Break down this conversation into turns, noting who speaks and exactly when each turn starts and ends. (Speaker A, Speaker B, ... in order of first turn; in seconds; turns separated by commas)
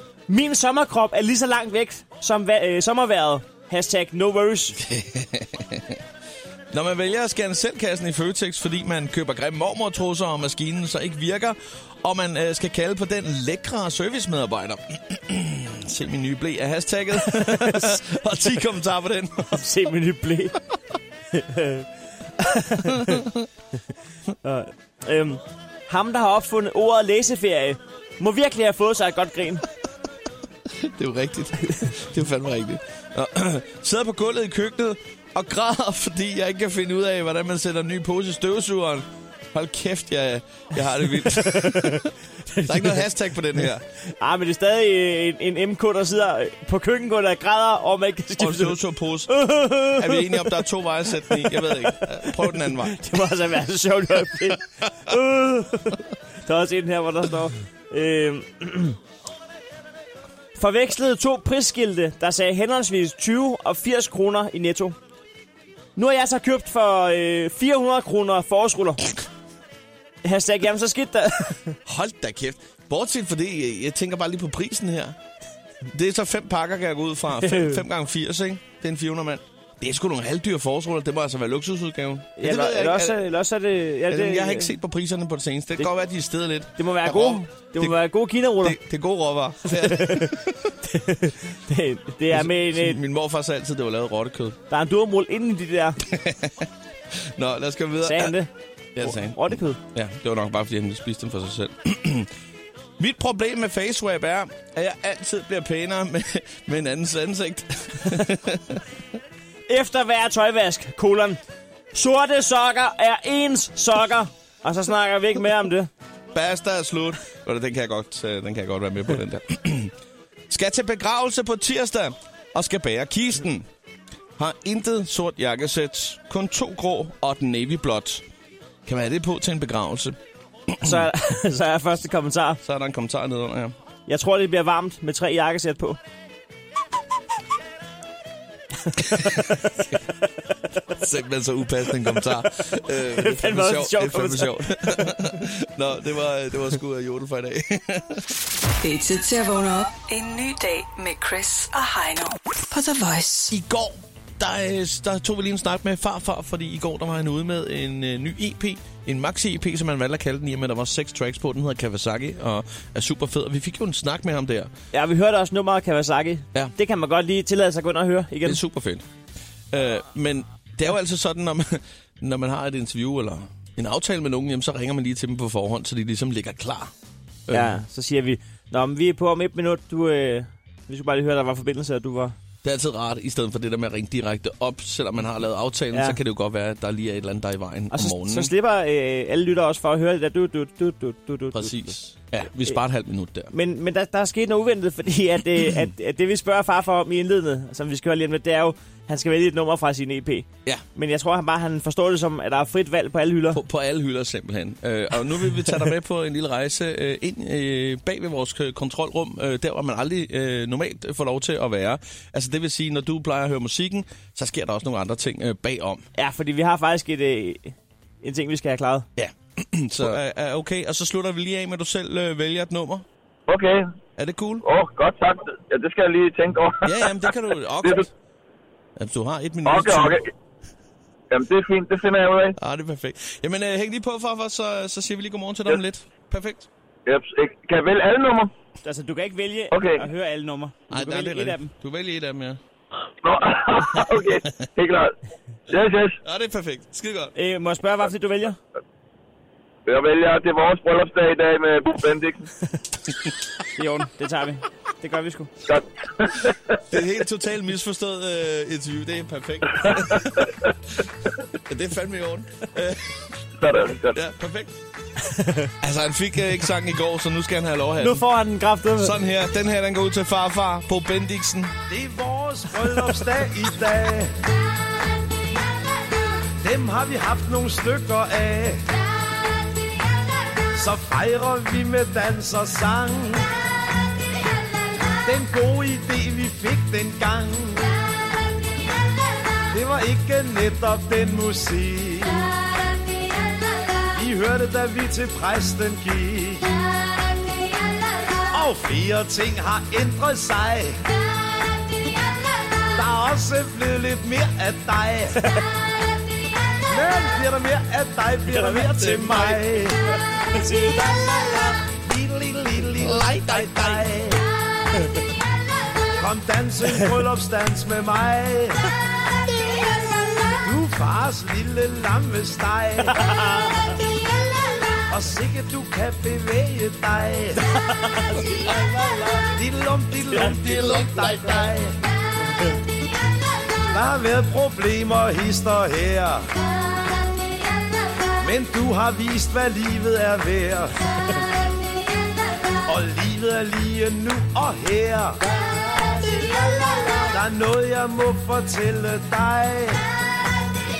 Speaker A: 0.3-4.8, Speaker B: 4.8-6.0, Speaker B: 6.7-19.6, Speaker A: 17.3-17.9, Speaker A: 19.6-20.6, Speaker A: 21.3-23.3, Speaker B: 22.9-23.4, Speaker A: 24.4-29.6, Speaker B: 30.7-42.1, Speaker A: 41.0-43.1, Speaker B: 42.6-43.8, Speaker A: 44.2-48.8, Speaker B: 48.4-53.0, Speaker A: 49.3-50.6, Speaker A: 51.3-59.0, Speaker A: 60.5-65.0, Speaker A: 66.0-69.1, Speaker A: 70.2-71.8, Speaker B: 71.8-75.2, Speaker B: 75.9-83.2, Speaker A: 77.3-77.8, Speaker A: 82.4-84.7, Speaker B: 84.1-88.0, Speaker A: 86.8-88.8, Speaker B: 88.6-90.7, Speaker A: 89.7-90.3, Speaker A: 90.8-93.0, Speaker B: 92.3-94.6, Speaker A: 94.7-96.0, Speaker B: 96.0-98.3, Speaker A: 98.0-98.5, Speaker B: 98.9-102.3, Speaker A: 99.0-99.8, Speaker B: 103.0-108.8, Speaker A: 109.7-111.4, Speaker A: 111.9-115.9, Speaker B: 116.3-119.9, Speaker B: 120.5-123.7, Speaker B: 124.4-128.2, Speaker B: 128.8-130.2, Speaker B: 130.7-131.1, Speaker A: 130.8-132.6, Speaker B: 132.6-133.8, Speaker A: 134.1-136.0, Speaker A: 138.8-139.9, Speaker B: 140.9-148.3, Speaker A: 143.2-145.2, Speaker C: 148.8-153.5, Speaker B: 153.5-164.7, Speaker A: 164.9-168.6, Speaker B: 168.4-169.1, Speaker B: 169.7-176.9, Speaker B: 177.5-177.7, Speaker A: 177.5-182.3, Speaker B: 182.6-188.5, Speaker A: 185.9-186.2, Speaker A: 187.9-191.8, Speaker B: 191.5-193.5, Speaker A: 193.5-203.6, Speaker B: 203.5-216.0, Speaker A: 216.2-219.1, Speaker B: 219.2-223.1, Speaker D: 223.5-224.0, Speaker B: 224.2-224.6, Speaker D: 224.6-228.1, Speaker B: 226.8-228.1, Speaker B: 229.0-230.2, Speaker D: 229.6-230.3, Speaker D: 231.3-232.5, Speaker B: 232.6-236.7, Speaker D: 237.1-238.5, Speaker A: 238.8-241.7, Speaker D: 239.7-240.1, Speaker B: 240.9-242.6, Speaker D: 243.2-245.1, Speaker D: 245.7-246.2, Speaker B: 246.2-247.3, Speaker A: 247.3-248.6, Speaker D: 249.8-252.5, Speaker A: 253.8-255.5, Speaker D: 255.7-256.8, Speaker B: 256.9-260.5, Speaker D: 259.8-260.7, Speaker B: 261.6-263.1, Speaker D: 263.6-264.2, Speaker B: 264.1-264.7, Speaker A: 265.2-265.7, Speaker B: 265.8-268.2, Speaker A: 268.0-269.1, Speaker B: 269.0-271.7, Speaker E: 271.9-274.4, Speaker E: 276.6-278.8, Speaker E: 280.7-283.5, Speaker E: 285.2-287.9, Speaker E: 289.7-292.5, Speaker E: 294.1-296.7, Speaker E: 298.5-301.0, Speaker E: 302.9-305.4, Speaker E: 306.9-310.0, Speaker A: 308.5-309.6, Speaker A: 310.4-311.6, Speaker E: 311.8-314.4, Speaker B: 313.0-314.0, Speaker E: 316.2-318.8, Speaker E: 320.6-323.3, Speaker A: 323.1-323.9, Speaker E: 325.1-327.6, Speaker A: 327.6-329.4, Speaker E: 329.5-332.0, Speaker A: 330.3-331.5, Speaker E: 333.9-336.4, Speaker E: 338.4-340.9, Speaker E: 342.9-345.4, Speaker E: 347.2-350.0